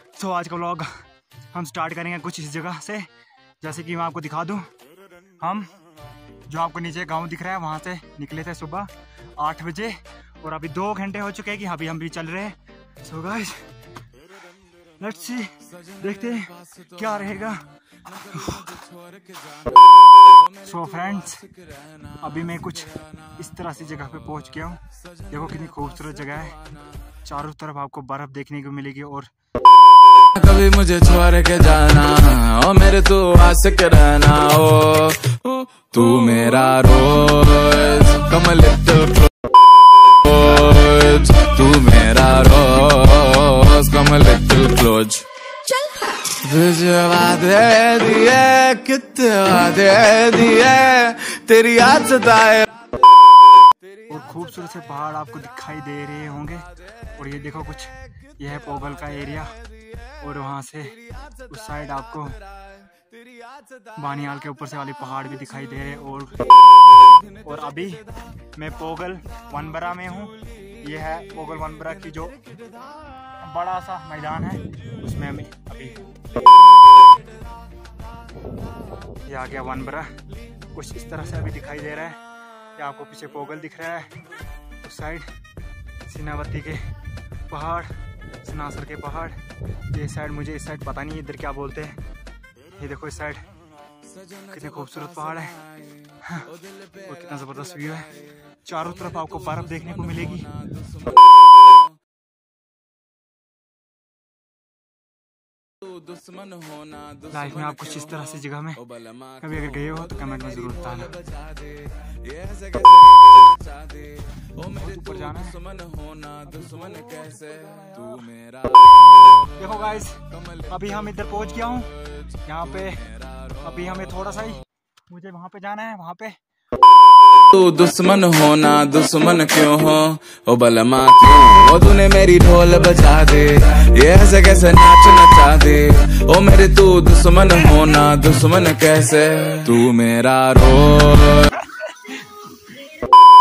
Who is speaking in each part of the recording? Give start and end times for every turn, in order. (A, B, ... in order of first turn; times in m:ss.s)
0:00.2-0:00.9 A
0:01.5-0:03.1 A
0:03.6-0:04.7 A
0:05.4-0:05.7 A
0:06.5-0:13.7 A
0:15.0-0:18.8 A
0:18.4-0:20.5 B
0:20.6-0:21.5 A
0:21.8-0:22.2 B
0:22.2-0:29.3 A
0:30.2-0:39.5 B
0:40.0-0:52.8 B
0:54.1-0:59.6 A
1:00.2-1:02.4 A
1:02.7-1:03.8 B
1:04.0-1:06.5 A
1:07.0-1:07.3 B
1:07.4-1:12.4 A
1:12.6-1:13.0 B
1:13.4-1:16.0 A
1:19.2-1:20.2 A
1:20.7-1:22.2 A
1:22.8-1:24.1 A
1:24.8-1:25.3 A
1:26.1-1:26.9 A
1:27.5-1:32.0 A
1:32.7-1:33.5 A
1:34.1-1:37.1 B
1:34.4-1:35.6 A
1:36.2-1:38.1 A
1:38.6-1:40.5 A
1:39.1-1:41.9 B
1:45.8-1:48.2 B
1:47.3-1:48.9 A
1:49.0-1:59.6 B
1:49.4-1:51.2 A
1:54.7-1:55.6 A
1:56.6-1:58.2 A
1:59.6-2:06.4 A
2:03.3-2:03.7 B
2:07.4-2:21.6 B